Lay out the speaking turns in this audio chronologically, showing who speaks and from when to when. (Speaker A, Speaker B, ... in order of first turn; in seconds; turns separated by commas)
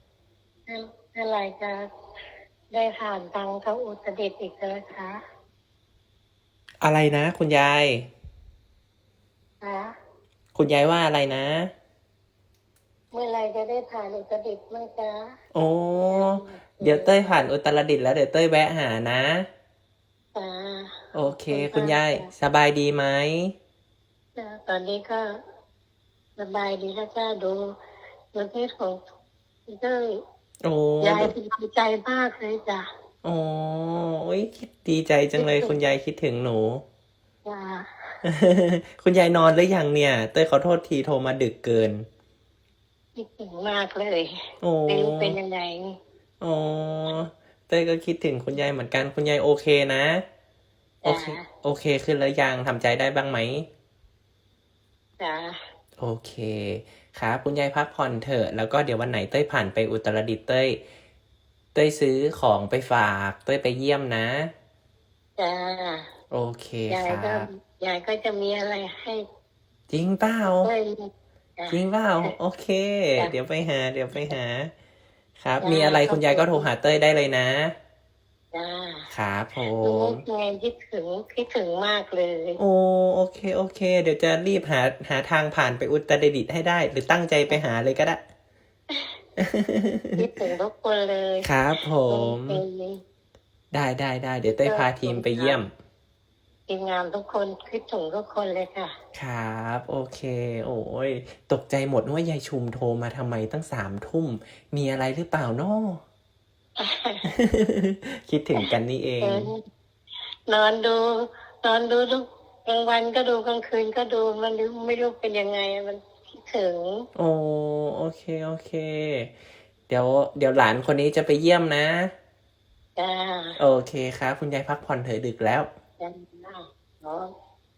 Speaker A: 0.7-1.8, Speaker A: 2.7-5.2, Speaker B: 6.8-8.1, Speaker A: 9.6-9.9, Speaker B: 10.6-11.7, Speaker A: 13.1-15.3, Speaker B: 15.5-19.5, Speaker A: 16.1-17.3, Speaker A: 20.3-21.0, Speaker B: 21.1-23.5, Speaker A: 21.5-22.3, Speaker A: 24.4-25.2, Speaker A: 26.4-27.6, Speaker A: 28.3-29.0, Speaker A: 29.7-30.2, Speaker B: 30.6-31.3, Speaker A: 31.0-32.9, Speaker B: 33.2-36.8, Speaker A: 35.4-35.8, Speaker A: 37.5-38.2, Speaker B: 38.2-42.0, Speaker A: 43.2-44.3, Speaker B: 44.6-45.4, Speaker A: 44.9-45.9, Speaker B: 46.4-50.2, Speaker A: 51.0-51.5, Speaker B: 51.0-53.7, Speaker A: 55.2-55.6, Speaker B: 56.0-60.8, Speaker B: 61.8-64.5, Speaker A: 65.4-66.1, Speaker B: 66.3-67.5, Speaker A: 66.9-69.2, Speaker B: 69.9-70.7, Speaker A: 70.4-71.0, Speaker A: 71.6-72.3, Speaker B: 71.7-74.7, Speaker B: 75.4-77.7, Speaker A: 75.6-76.7, Speaker A: 78.5-79.1, Speaker B: 79.1-80.2, Speaker A: 79.8-82.6, Speaker B: 82.6-88.2, Speaker B: 89.4-90.2, Speaker A: 90.2-91.5, Speaker B: 91.4-92.6, Speaker A: 92.1-93.0, Speaker B: 93.7-95.7, Speaker A: 94.5-95.6, Speaker A: 96.7-98.9, Speaker B: 99.2-106.0, Speaker A: 106.8-107.3, Speaker B: 107.3-109.5, Speaker A: 109.2-109.6, Speaker A: 110.5-117.1, Speaker B: 117.2-119.3, Speaker B: 119.9-122.1, Speaker A: 123.0-123.6, Speaker B: 123.6-125.7, Speaker A: 126.0-127.3